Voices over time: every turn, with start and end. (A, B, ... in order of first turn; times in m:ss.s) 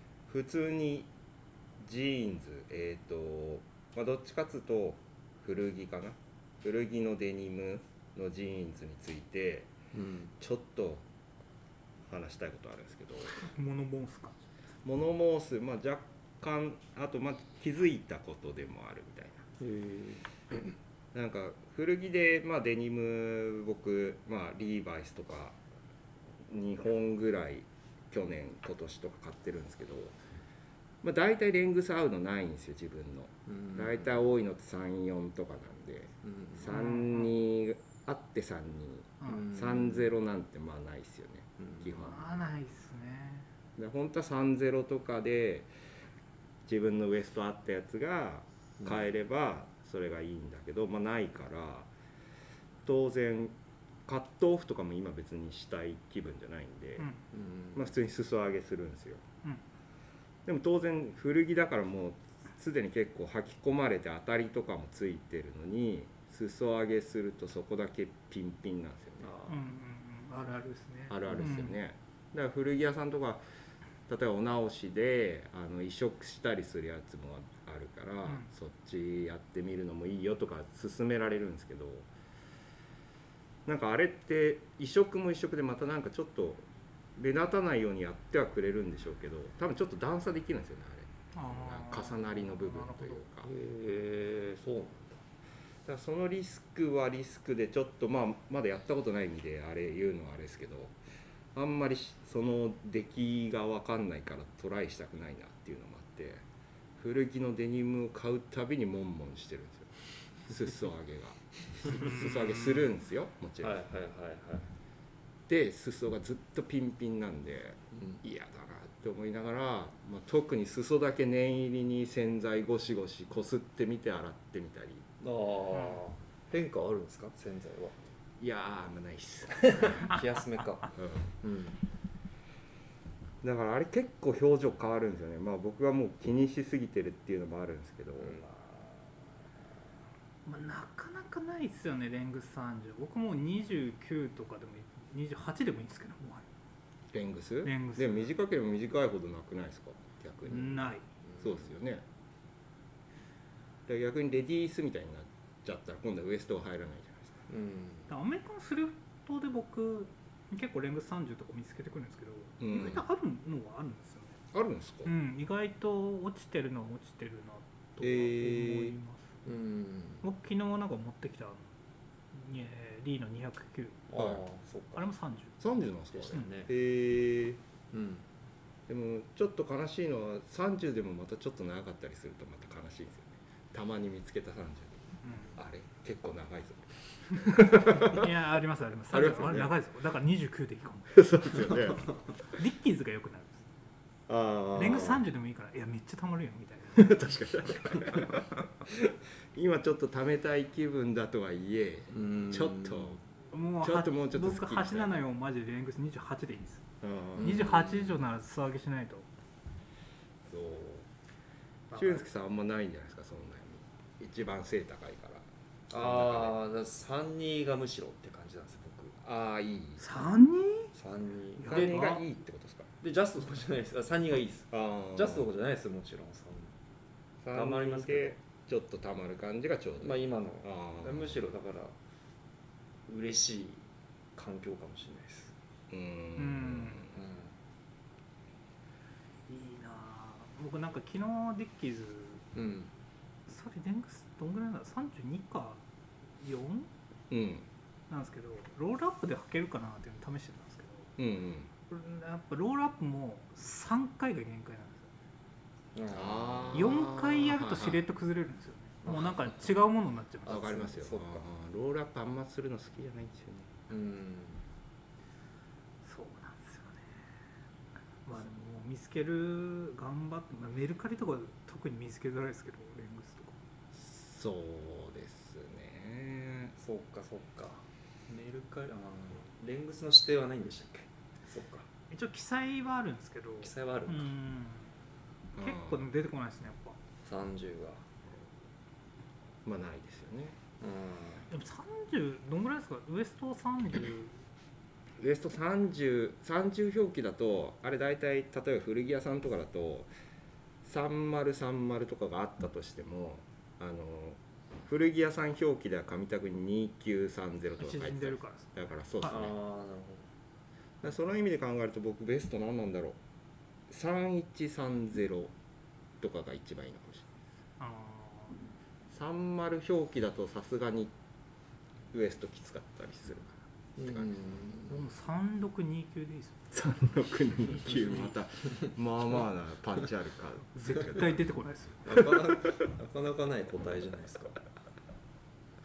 0:00.3-0:01.1 A
0:01.8-0:09.7 A
0:09.9-0:10.3 B
0:10.4-0:11.0 A
0:12.1-0:13.5 A
0:13.4-0:14.3 C
0:14.8-0:19.4 A
0:19.6-0:20.3 B
0:21.1-0:25.6 A
0:26.5-0:30.2 A
0:31.0-0:42.4 A
0:33.5-0:34.1 B
0:36.2-0:36.6 B
0:36.7-0:37.4 C
0:39.2-0:39.5 C
0:39.3-0:40.1 B
0:41.6-0:41.9 B
0:42.0-0:43.5 C
0:43.8-0:45.7 A
0:46.7-0:51.9 A
0:52.8-0:53.6 A
0:54.1-0:57.1 A
0:57.3-0:57.9 B
0:57.8-0:59.2 A
1:00.5-1:09.3 A
1:09.2-1:09.6 B
1:09.5-1:11.8 C
1:11.1-1:13.4 A
1:14.1-1:22.1 A
1:23.7-1:33.5 A
1:31.4-1:33.3 C
1:33.4-1:35.2 B
1:35.8-1:41.0 A
1:41.6-1:46.4 A
1:47.0-1:49.9 A
1:50.5-1:53.8 A
1:53.6-1:54.7 B
1:55.5-2:05.1 A
2:05.2-2:08.0 B
2:08.4-2:10.2 A
2:09.7-2:11.8 B
2:11.0-2:11.3 A
2:13.4-2:18.4 A
2:18.2-2:19.0 B
2:20.5-2:26.5 C
2:27.1-2:30.9 A
2:27.6-2:28.3 C
2:30.5-2:31.1 C
2:31.3-2:31.7 B
2:31.4-2:32.0 A
2:33.9-2:37.4 A
2:37.5-2:38.1 B
2:38.1-2:44.4 C
2:42.6-2:43.0 A
2:44.5-2:45.1 A
2:45.0-2:49.3 C
2:48.0-2:49.0 A
2:49.4-2:50.2 B
2:50.2-2:51.7 C
2:52.3-2:54.1 C
2:54.1-2:55.1 B
2:54.2-2:54.4 A
2:55.0-2:55.6 C
2:55.6-2:57.6 A
2:56.1-2:56.7 B
2:57.9-2:58.3 B
2:58.9-3:08.2 A
3:05.2-3:05.6 C
3:07.8-3:13.6 C
3:09.1-3:09.8 A
3:11.1-3:12.1 A
3:14.3-3:15.2 A
3:14.7-3:17.3 C
3:17.0-3:23.2 A
3:22.1-3:23.2 B
3:23.5-3:26.8 C
3:23.8-3:25.2 A
3:27.0-3:27.7 A
3:27.4-3:29.3 C
3:27.4-3:28.2 B
3:30.5-3:31.1 A
3:31.9-3:32.3 C
3:31.9-3:36.6 A
3:35.9-3:39.2 B
3:39.2-3:40.1 A
3:40.0-3:40.9 C
3:41.0-3:41.9 B
3:41.6-3:42.3 C
3:41.6-3:42.9 A
3:43.0-3:46.7 B
3:44.7-3:45.5 A
3:47.4-3:51.4 A
3:47.5-3:48.4 B
3:50.0-3:52.0 B
3:53.1-3:55.5 B
3:55.9-3:57.1 A
3:56.4-3:57.1 C
3:57.1-3:57.6 B
3:59.5-4:02.4 C
4:02.5-4:02.9 B
4:03.5-4:05.8 C
4:06.4-4:06.9 C
4:07.3-4:07.7 A
4:08.1-4:11.1 C
4:11.2-4:11.7 A
4:11.9-4:15.1 C
4:16.0-4:16.9 B
4:16.1-4:18.1 A
4:16.7-4:20.9 C
4:19.0-4:19.7 B
4:20.5-4:21.5 B
4:20.5-4:23.8 A
4:23.9-4:24.6 B
4:26.0-4:27.2 C
4:28.2-4:33.6 C
4:33.9-4:36.8 A
4:36.8-4:41.9 B
4:42.1-4:44.9 C
4:43.6-4:44.3 B
4:45.5-4:47.0 C
4:45.6-4:46.1 A
4:47.2-4:48.0 B
4:49.6-4:50.6 A
4:50.8-4:51.5 B
4:51.5-4:54.4 C
4:55.2-5:00.1 A
5:00.8-5:09.6 A
5:07.8-5:09.4 C
5:09.2-5:10.3 B
5:11.0-5:13.2 A
5:13.9-5:15.5 A
5:16.2-5:17.3 A
5:17.8-5:18.6 C
5:19.1-5:21.1 A
5:22.1-5:24.5 A
5:24.0-5:25.0 B
5:24.9-5:26.7 C
5:26.7-5:31.4 A
5:27.6-5:28.3 C
5:30.8-5:32.2 C
5:32.0-5:34.6 B